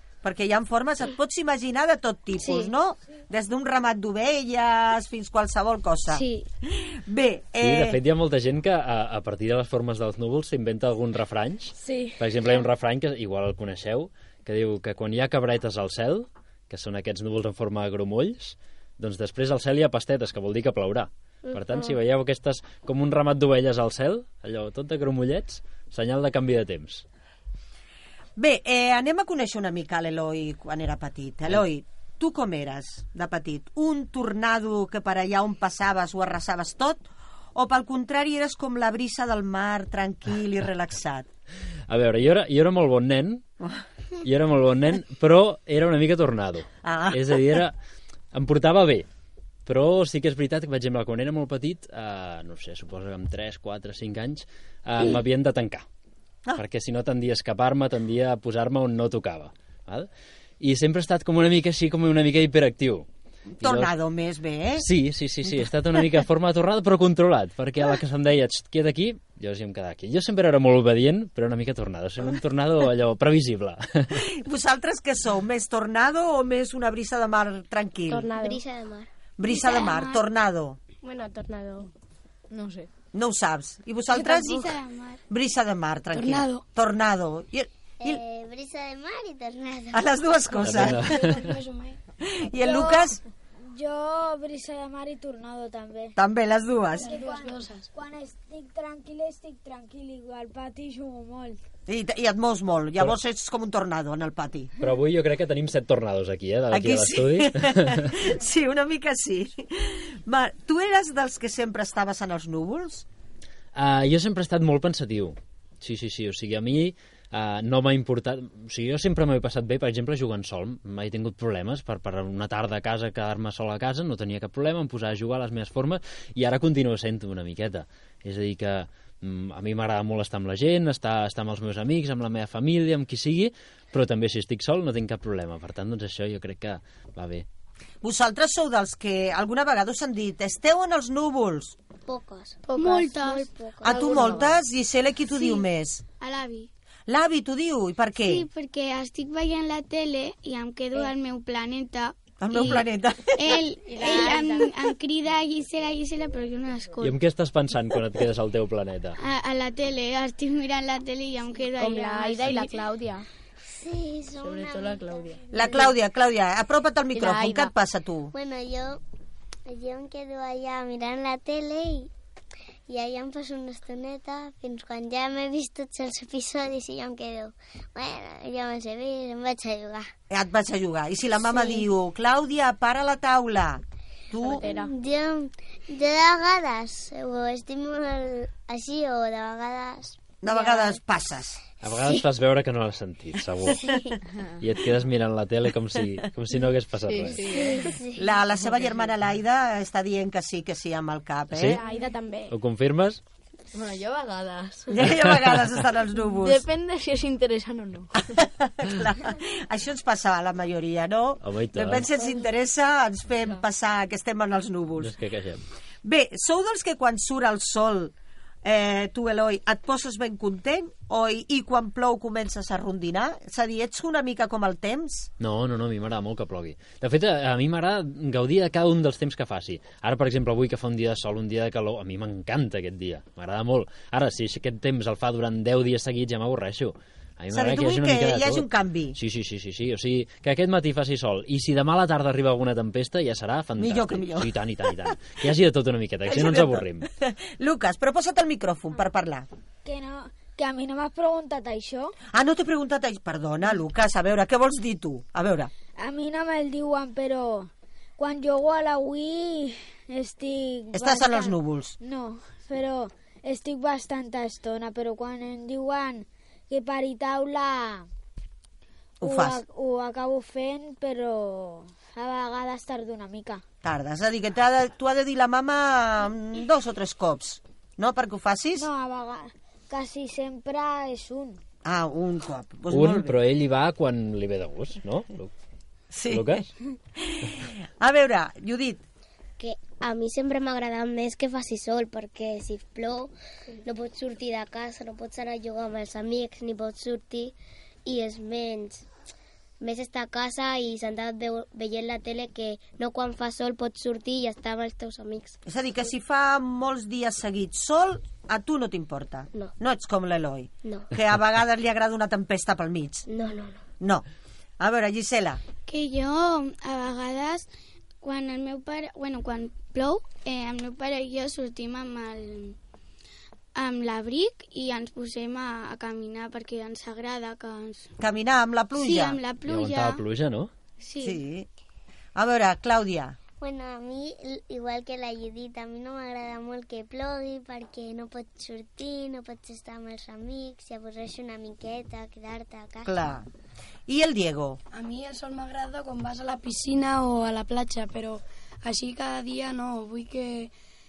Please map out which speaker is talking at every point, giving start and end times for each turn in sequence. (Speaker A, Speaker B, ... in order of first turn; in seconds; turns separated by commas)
Speaker A: 0.2-8.0, Speaker B: 2.4-2.7, Speaker B: 6.1-6.5, Speaker C: 7.6-27.1, Speaker A: 28.4-37.0, Speaker A: 37.5-41.3, Speaker C: 41.9-43.4, Speaker C: 44.2-47.8, Speaker A: 46.8-47.6, Speaker C: 48.3-49.1, Speaker C: 49.7-55.9, Speaker C: 56.6-60.1, Speaker C: 60.6-63.1, Speaker A: 63.6-64.9, Speaker C: 63.6-63.9, Speaker C: 64.8-74.2, Speaker A: 74.2-78.3, Speaker B: 78.1-78.6, Speaker D: 78.3-79.1, Speaker A: 79.4-80.8, Speaker B: 79.7-80.0, Speaker B: 81.0-81.9, Speaker E: 82.5-82.9, Speaker A: 83.1-84.8, Speaker F: 84.1-85.2, Speaker A: 85.3-88.2, Speaker G: 86.1-86.7, Speaker D: 88.0-90.1, Speaker A: 89.9-91.3, Speaker C: 90.6-91.4, Speaker G: 90.6-92.0, Speaker A: 92.2-93.2, Speaker H: 92.6-96.2, Speaker A: 96.2-97.1, Speaker G: 97.0-97.9, Speaker H: 97.0-101.6, Speaker A: 101.9-104.7, Speaker C: 104.8-108.1, Speaker A: 106.7-113.1, Speaker C: 113.8-137.5, Speaker A: 138.0-141.8, Speaker D: 142.1-144.1, Speaker F: 142.7-143.5, Speaker A: 143.8-146.0, Speaker F: 145.3-145.7, Speaker F: 146.2-146.7, Speaker A: 147.1-148.5, Speaker F: 148.2-157.2, Speaker A: 152.4-153.5, Speaker E: 154.0-154.5, Speaker C: 157.0-159.2, Speaker F: 159.2-162.8, Speaker E: 161.8-163.3, Speaker D: 163.7-165.0, Speaker E: 164.4-165.8, Speaker A: 165.5-168.3, Speaker E: 167.1-167.7, Speaker D: 168.3-169.0, Speaker D: 169.7-172.1, Speaker D: 172.9-180.1, Speaker A: 180.3-184.7, Speaker D: 181.4-181.8, Speaker E: 184.5-184.9, Speaker D: 184.6-191.0, Speaker A: 190.4-191.6, Speaker C: 191.8-194.0, Speaker C: 194.6-197.6, Speaker E: 197.1-197.9, Speaker D: 197.5-198.2, Speaker A: 198.2-201.8, Speaker C: 201.5-201.8, Speaker E: 201.7-202.5, Speaker C: 202.5-203.2, Speaker E: 203.7-205.1, Speaker A: 204.9-206.6, Speaker C: 205.0-205.3, Speaker E: 206.3-208.2, Speaker A: 208.2-215.1, Speaker C: 211.4-212.1, Speaker C: 215.0-215.6, Speaker A: 216.0-225.3, Speaker C: 225.4-247.1, Speaker A: 237.5-239.2, Speaker A: 243.8-244.5, Speaker A: 246.3-249.5, Speaker H: 249.8-252.2, Speaker A: 252.3-255.7, Speaker H: 256.0-268.1, Speaker A: 260.9-262.0, Speaker A: 269.2-269.6, Speaker H: 269.2-273.6, Speaker A: 273.8-278.9, Speaker H: 278.8-281.6, Speaker A: 281.9-283.4, Speaker C: 282.9-285.5, Speaker A: 286.1-286.6, Speaker C: 286.3-286.7, Speaker A: 287.2-289.0, Speaker D: 289.6-293.3, Speaker D: 293.9-299.1, Speaker D: 299.8-305.6, Speaker A: 305.7-313.3, Speaker D: 310.8-311.1, Speaker D: 313.3-313.8, Speaker A: 314.0-314.2, Speaker A: 314.8-315.6, Speaker F: 315.9-317.7, Speaker F: 318.2-322.8, Speaker F: 323.8-328.1, Speaker A: 328.2-329.4, Speaker F: 328.9-330.2, Speaker C: 329.6-330.7, Speaker F: 331.0-331.4, Speaker A: 331.2-331.7, Speaker A: 332.4-333.4, Speaker D: 333.6-343.2, Speaker A: 343.1-343.5, Speaker A: 344.1-344.8, Speaker G: 344.9-350.7